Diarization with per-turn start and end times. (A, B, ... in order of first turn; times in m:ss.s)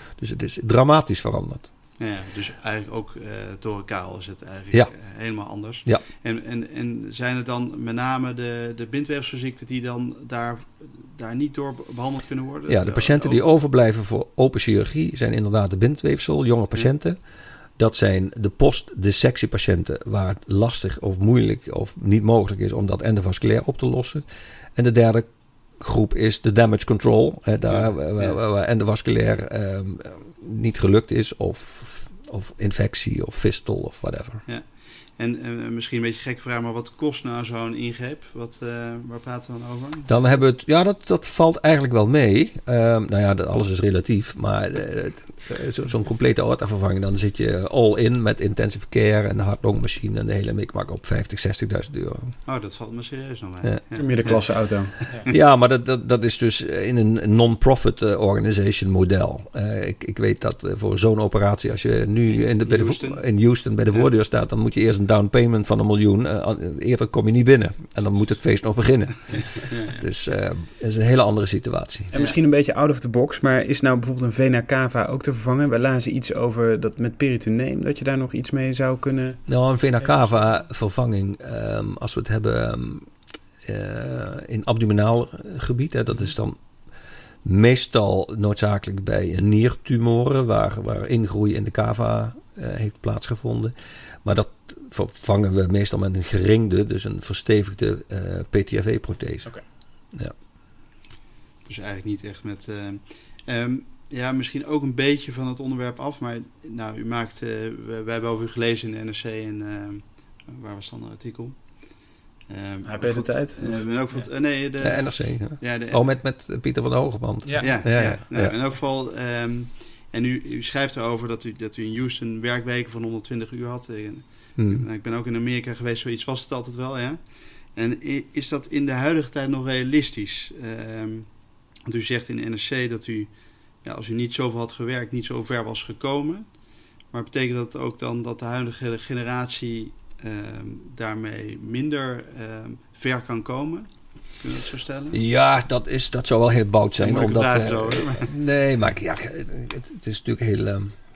0:00.2-0:01.7 A
0:02.0-0:13.4 B
0:12.7-0:17.2 A
0:17.8-0:24.2 A
0:24.8-0:25.3 A
0:25.8-0:34.4 A
0:27.7-0:28.4 B
0:34.4-0:40.4 B
0:40.1-0:52.3 A
0:52.4-0:54.5 B
0:53.6-0:54.3 A
0:54.0-0:55.2 C
0:55.3-1:12.1 A
1:02.6-1:03.2 B
1:09.6-1:10.0 B
1:12.1-1:19.4 C
1:19.5-1:23.1 A
1:23.6-1:26.6 A
1:27.4-1:39.5 A
1:41.6-1:51.9 B
1:52.5-1:56.0 B
1:52.8-1:53.8 C
1:54.8-1:58.5 A
1:57.6-2:07.2 B
2:04.6-2:04.8 A
2:07.7-2:11.3 B
2:11.8-2:16.5 B
2:17.1-2:25.2 B
2:25.1-2:30.9 A
2:27.0-2:28.3 B